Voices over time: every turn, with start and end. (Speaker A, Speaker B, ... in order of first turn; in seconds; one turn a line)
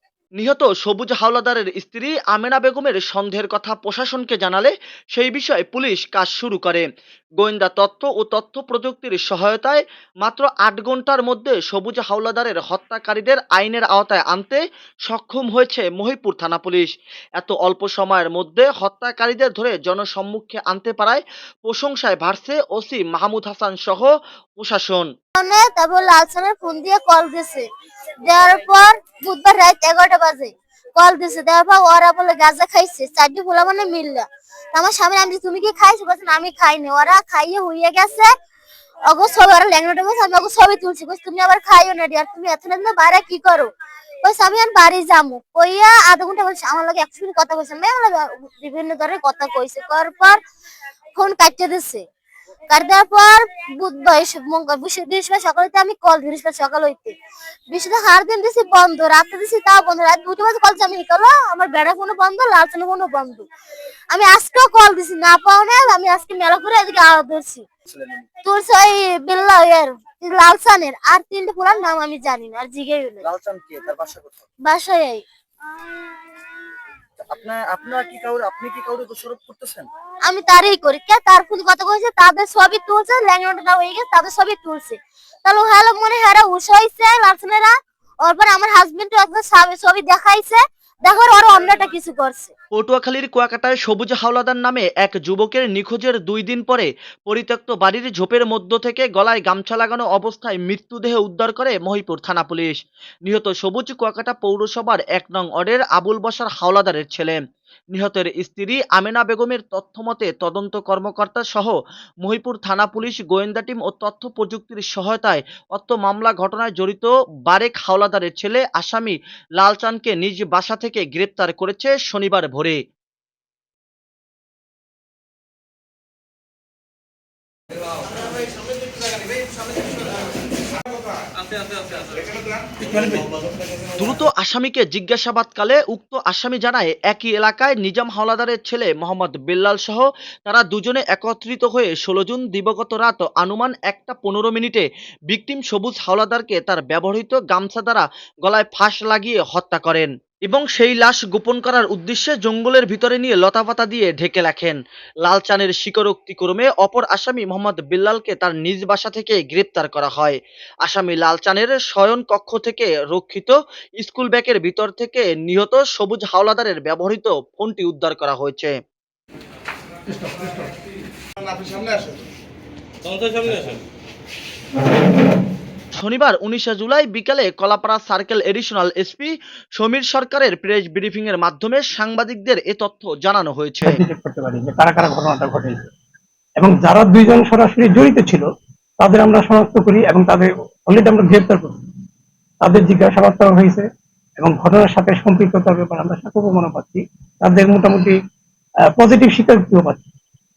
Speaker A: 0.4-6.9
Speaker A: 7.4-16.9
Speaker A: 17.4-25.1
Speaker B: 25.4-27.7
Speaker B: 28.2-38.3
Speaker B: 39.1-43.7
Speaker B: 44.2-50.4
Speaker B: 51.1-52.0
Speaker B: 52.7-57.1
Speaker B: 57.7-63.5
Speaker B: 64.1-67.7
Speaker C: 67.9-68.3
Speaker B: 68.5-73.2
Speaker C: 73.2-74.4
Speaker B: 74.7-75.2
Speaker C: 77.3-79.9
Speaker B: 80.3-87.7
Speaker B: 88.2-92.5
Speaker A: 92.7-107.4
Speaker A: 108.0-122.8
Speaker A: 134.0-168.7
Speaker A: 175.9-184.0
Speaker D: 183.8-185.9
Speaker D: 186.6-188.5
Speaker D: 189.0-191.8
Speaker D: 192.6-193.9
Speaker D: 194.4-198.2
Speaker D: 198.9-200.0